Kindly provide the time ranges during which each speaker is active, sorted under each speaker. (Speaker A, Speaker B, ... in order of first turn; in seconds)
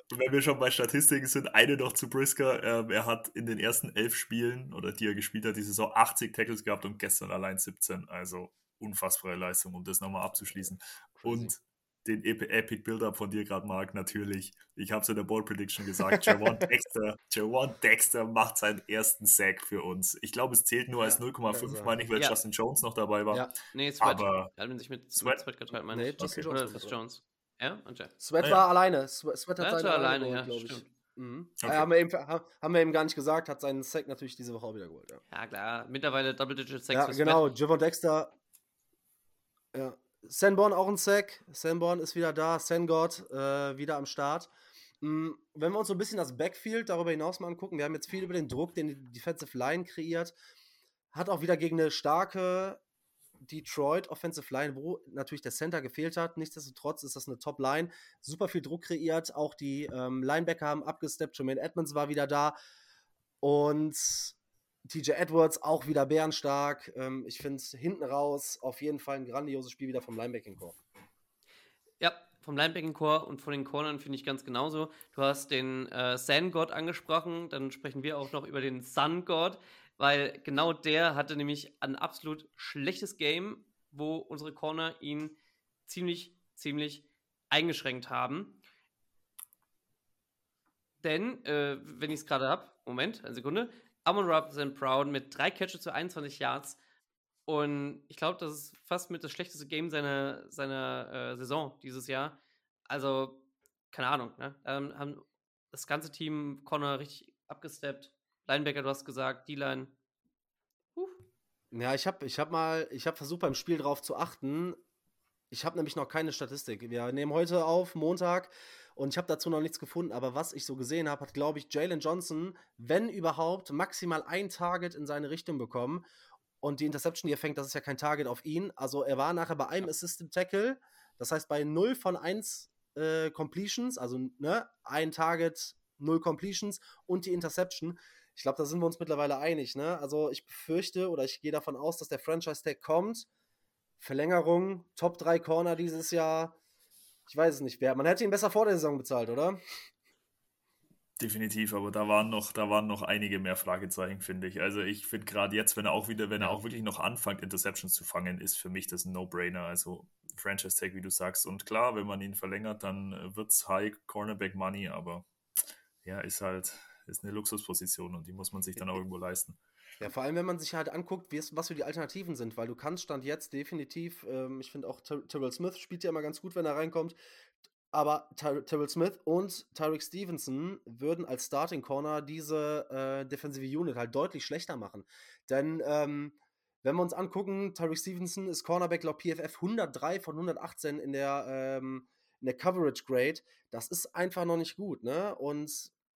Speaker A: 0.1-24.5, 25.1-25.4, 26.2-26.5, 31.6-31.9, 151.2-165.2, 166.0-169.6
Speaker B: 11.2-11.5, 16.0-16.6, 21.0-21.9, 25.9-27.0, 28.2-35.2, 36.9-38.3, 39.7-44.5, 45.0-50.3, 51.1-52.8, 53.4-62.5, 63.4-64.3, 64.9-70.8, 111.7-114.8, 115.5-126.0, 126.6-143.3, 144.0-146.6, 147.3-149.6, 170.0-177.2, 177.9-195.9
Speaker C: 23.7-28.1, 29.6-30.9, 35.3-37.5, 72.0-88.6, 91.0-96.8, 97.5-109.9